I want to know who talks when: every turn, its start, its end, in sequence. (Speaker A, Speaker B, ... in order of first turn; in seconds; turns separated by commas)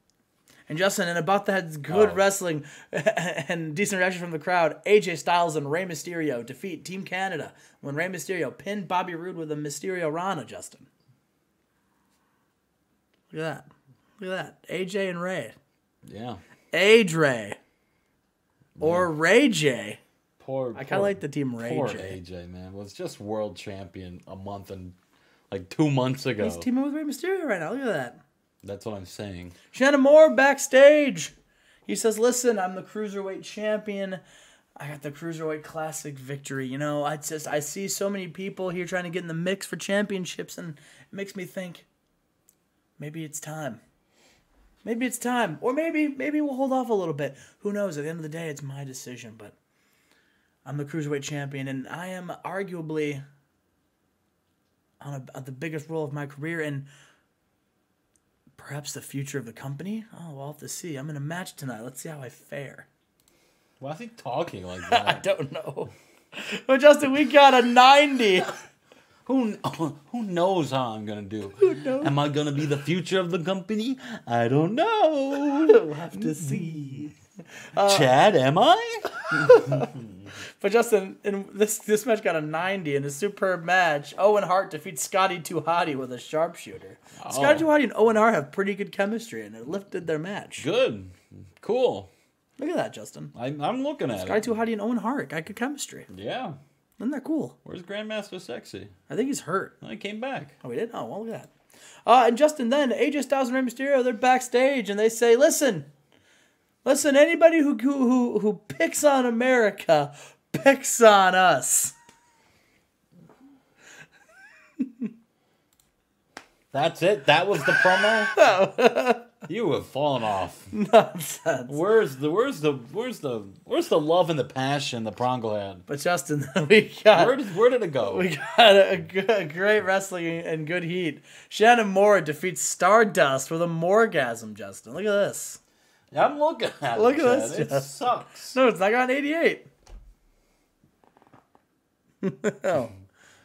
Speaker A: 0.7-10.9, Speaker B: 1.9-2.2, Speaker A: 13.3-13.7, Speaker A: 14.2-15.6, Speaker B: 16.1-16.4, Speaker A: 16.7-17.6, Speaker B: 18.8-19.1, Speaker A: 18.8-20.0, Speaker B: 20.4-25.0, Speaker A: 20.8-22.2, Speaker B: 25.5-26.7, Speaker A: 26.4-28.2, Speaker B: 28.6-29.6, Speaker A: 29.7-31.3, Speaker A: 31.9-34.2, Speaker A: 34.8-41.9, Speaker A: 43.0-43.8, Speaker A: 44.8-49.5, Speaker A: 50.6-53.2, Speaker A: 55.0-56.9, Speaker A: 58.6-62.9, Speaker B: 63.8-65.3, Speaker A: 64.9-68.5, Speaker B: 69.3-77.1, Speaker A: 71.6-72.1, Speaker A: 75.5-77.2, Speaker A: 77.7-78.1, Speaker B: 77.8-80.1, Speaker A: 79.2-80.0, Speaker A: 80.6-90.7, Speaker B: 87.2-87.7, Speaker B: 90.6-92.1, Speaker A: 92.6-93.3, Speaker B: 93.3-94.5, Speaker A: 94.2-96.1, Speaker B: 96.1-96.6, Speaker A: 97.0-97.6, Speaker B: 97.7-98.9, Speaker A: 99.1-99.8, Speaker B: 99.8-100.6, Speaker A: 100.6-101.5, Speaker A: 102.1-105.9, Speaker A: 106.8-112.0, Speaker A: 114.8-115.1, Speaker B: 116.7-118.4, Speaker A: 118.3-119.3, Speaker B: 119.5-120.7, Speaker A: 120.7-121.8, Speaker B: 121.7-125.9, Speaker A: 125.9-127.4, Speaker B: 127.1-128.3, Speaker A: 128.1-135.6, Speaker B: 136.1-138.6, Speaker A: 136.9-137.9, Speaker A: 138.5-139.7, Speaker A: 142.2-142.9